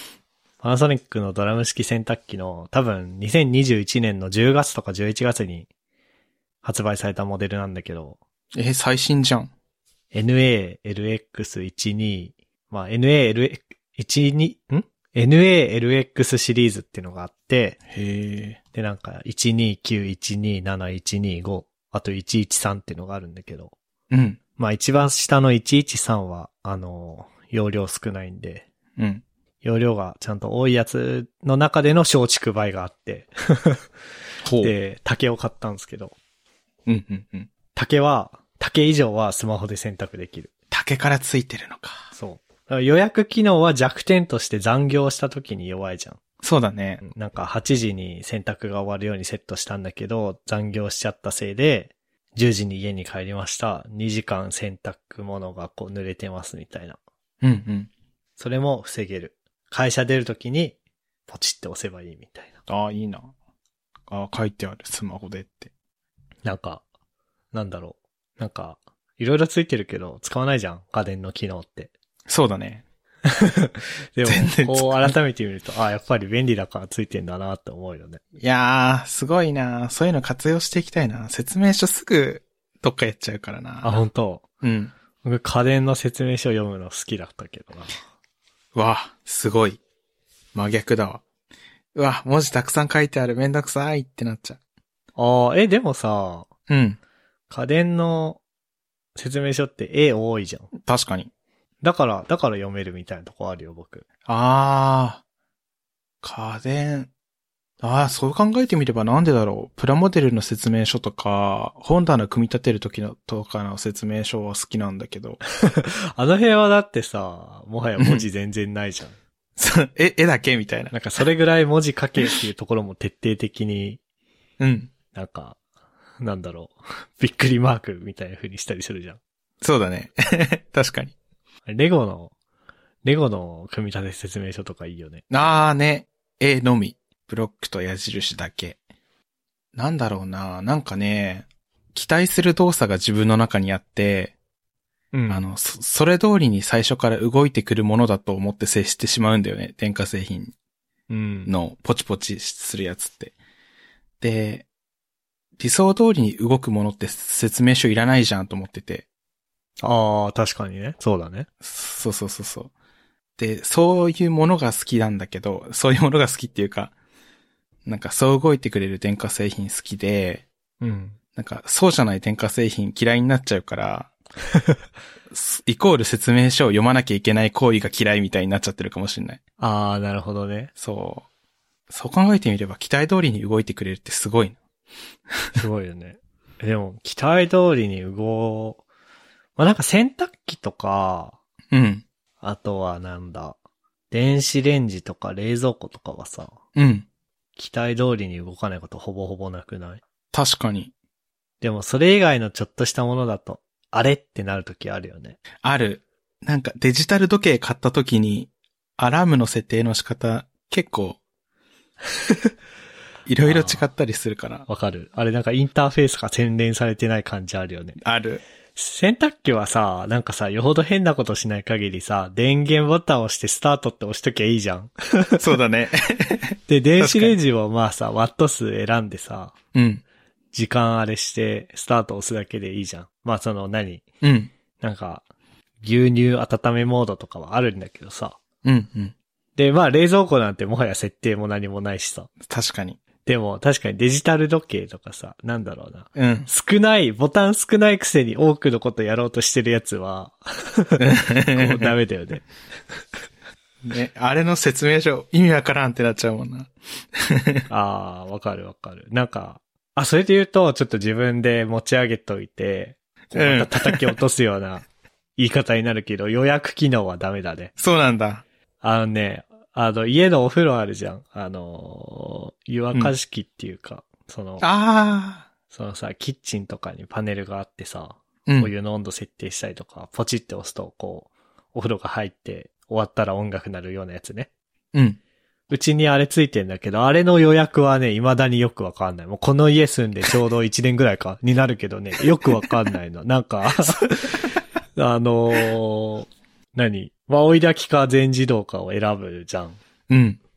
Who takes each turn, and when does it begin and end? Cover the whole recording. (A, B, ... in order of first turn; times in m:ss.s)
0:00.6-0:05.7 A
0:06.6-0:08.2 A
0:08.5-0:09.5 B
0:10.1-0:17.8 A
0:17.9-0:18.6 B
0:18.7-0:23.7 A
0:24.1-0:24.4 B
0:24.6-0:28.7 A
0:29.0-0:29.2 B
0:29.6-0:33.8 A
0:34.4-0:34.7 B
0:34.6-0:36.1 A
0:36.8-0:37.5 B
0:37.7-0:40.5 A
0:40.7-0:42.1 B
0:42.1-0:46.2 A
0:46.4-0:47.0 B
0:47.0-0:57.0 A
0:57.4-0:57.9 B
0:58.4-1:00.8 A
1:01.3-1:02.6 A
1:02.7-1:03.3 B
1:04.1-1:05.7 B
1:06.4-1:06.8 A
1:07.5-1:11.9 A
1:12.3-1:12.8 B
1:13.2-1:18.2 A
1:14.2-1:15.1 B
1:18.4-1:24.0 B
1:23.8-1:24.4 A
1:24.6-1:24.9 B
1:25.2-1:27.9 A
1:28.7-1:29.8 B
1:30.5-1:31.2 B
1:31.9-1:34.6 B
1:35.2-1:36.5 A
1:36.7-1:37.0 B
1:37.5-1:38.4 A
1:39.2-1:40.7 A
1:40.8-1:41.3 B
1:41.8-1:44.0 A
1:44.3-1:45.2 B
1:46.2-1:47.1 B
1:47.8-1:55.4 B
1:55.6-1:59.2 A
1:58.0-1:58.2 B
1:59.6-2:00.9 B
2:00.9-2:04.0 A
2:04.6-2:04.9 B
2:05.1-2:05.6 A
2:06.2-2:09.2 A
2:09.6-2:11.1 B
2:11.7-2:12.3 A
2:13.0-2:15.2 A
2:15.3-2:18.8 B
2:19.7-2:24.3 B
2:25.1-2:25.4 A
2:25.3-2:30.5 B
2:31.1-2:31.5 A
2:31.5-2:33.3 B
2:34.2-2:34.6 B
2:35.6-2:39.0 B
2:39.8-2:41.5 A
2:41.6-2:42.7 B
2:43.4-2:46.9 B
2:47.8-2:50.4 B
2:50.8-2:51.2 A
2:51.4-2:54.1 B
2:55.3-2:59.4 B
2:59.6-3:00.7 A
3:00.8-3:01.3 B
3:01.9-3:04.6 B
3:05.5-3:08.8 A
3:09.6-3:11.4 A
3:11.7-3:12.0 B
3:12.4-3:13.6 A
3:14.1-3:16.6 A
3:16.7-3:17.0 B
3:17.6-3:20.0 A
3:20.3-3:20.9 B
3:21.6-3:25.4 A
3:25.6-3:31.2 B
3:33.2-3:34.6 B
3:33.4-3:33.8 A
3:34.7-3:38.0 A
3:38.0-3:38.4 B
3:38.8-3:45.4 A
3:45.4-3:47.4 B
3:46.7-3:49.5 A
3:49.7-3:50.0 B
3:50.5-3:54.0 A
3:54.2-3:54.5 B
3:54.8-3:55.2 A
3:55.8-3:58.4 A
3:58.6-3:59.1 B
3:59.6-4:02.3 A
4:02.4-4:03.0 B
4:03.2-4:12.4 A
4:06.2-4:06.5 B
4:11.0-4:11.9 B
4:13.8-4:17.6 B
4:17.7-4:24.8 A
4:23.3-4:24.2 B
4:25.4-4:27.7 A
4:27.8-4:28.4 B
4:28.8-4:34.6 A
4:34.6-4:35.5 B
4:35.7-4:44.5 A
4:38.4-4:38.7 B
4:44.9-4:45.2 B
4:45.7-4:59.8 A
5:00.1-5:00.4 B